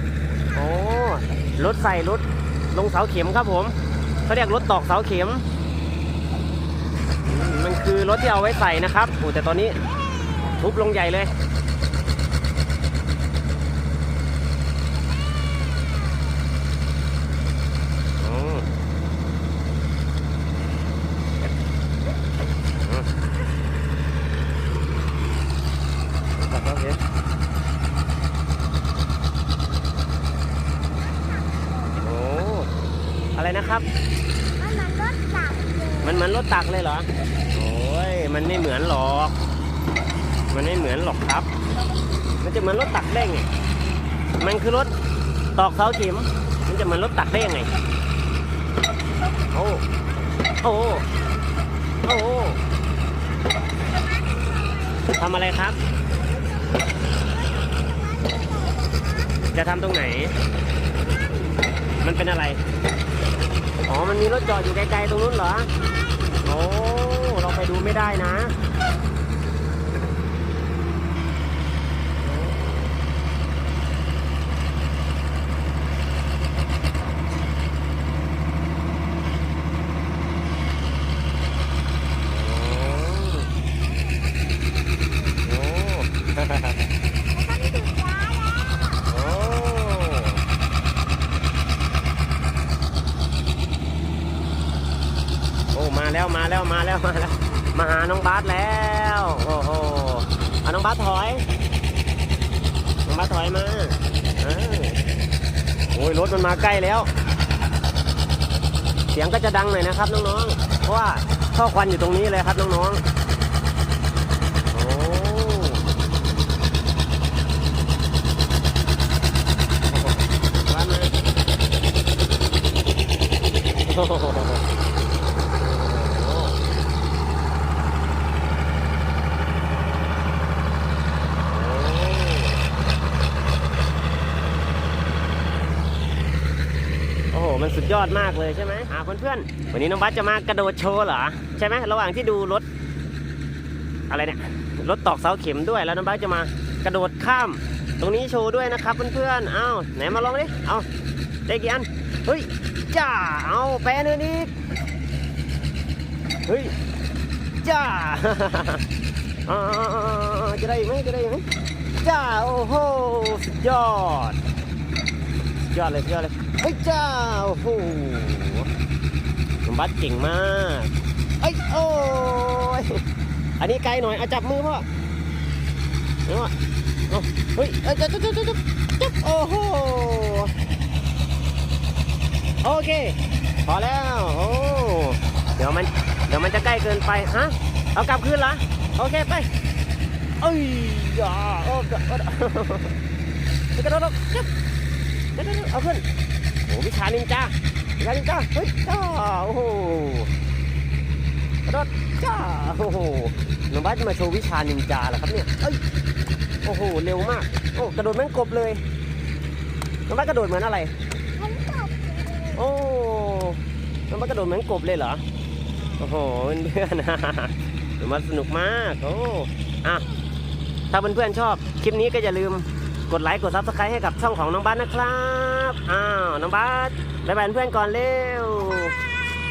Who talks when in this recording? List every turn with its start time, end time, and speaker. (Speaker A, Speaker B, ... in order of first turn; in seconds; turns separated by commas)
Speaker A: 0.5-3.8, Speaker A: 4.3-5.5, Speaker A: 7.3-9.8, Speaker B: 10.0-10.6, Speaker A: 10.4-11.3, Speaker B: 15.0-16.3, Speaker A: 18.2-18.7, Speaker A: 26.4-27.0, Speaker B: 30.8-32.0, Speaker A: 32.0-32.7, Speaker A: 33.3-33.9, Speaker B: 34.6-36.2, Speaker A: 36.0-39.4, Speaker A: 40.5-41.5, Speaker A: 42.4-43.5, Speaker A: 44.4-44.9, Speaker A: 45.6-47.7, Speaker A: 49.5-49.8, Speaker A: 50.6-51.1, Speaker A: 52.0-52.6, Speaker B: 53.4-55.1, Speaker A: 55.1-55.8, Speaker B: 56.1-59.4, Speaker A: 59.5-60.4, Speaker B: 61.0-61.6, Speaker A: 62.0-62.6, Speaker A: 63.9-65.7, Speaker B: 64.2-64.7, Speaker B: 65.8-66.2, Speaker A: 66.4-68.6, Speaker A: 72.2-72.9, Speaker A: 82.3-83.5, Speaker B: 83.6-85.4, Speaker A: 85.4-86.8, Speaker B: 87.3-89.1, Speaker A: 89.1-90.4, Speaker A: 95.7-101.5, Speaker A: 103.1-105.0, Speaker A: 105.9-107.1, Speaker A: 109.1-113.0, Speaker A: 114.7-115.8, Speaker A: 120.7-121.1, Speaker A: 123.9-124.6, Speaker A: 125.6-126.6, Speaker A: 131.5-132.6, Speaker A: 137.3-142.7, Speaker A: 144.1-150.9, Speaker A: 151.5-154.5, Speaker A: 156.5-156.7, Speaker A: 157.6-158.8, Speaker A: 159.5-161.5, Speaker A: 162.0-164.4, Speaker A: 165.7-168.7, Speaker A: 169.6-173.0, Speaker A: 173.6-174.9, Speaker A: 176.3-176.5, Speaker A: 177.1-180.5, Speaker A: 182.6-189.5, Speaker A: 190.4-192.9, Speaker A: 193.7-194.5, Speaker A: 195.3-196.1, Speaker A: 196.7-200.3, Speaker A: 201.7-205.8, Speaker A: 206.6-208.8, Speaker A: 210.1-210.9, Speaker B: 211.4-212.6, Speaker A: 212.5-215.2, Speaker A: 216.0-220.1, Speaker A: 220.9-229.0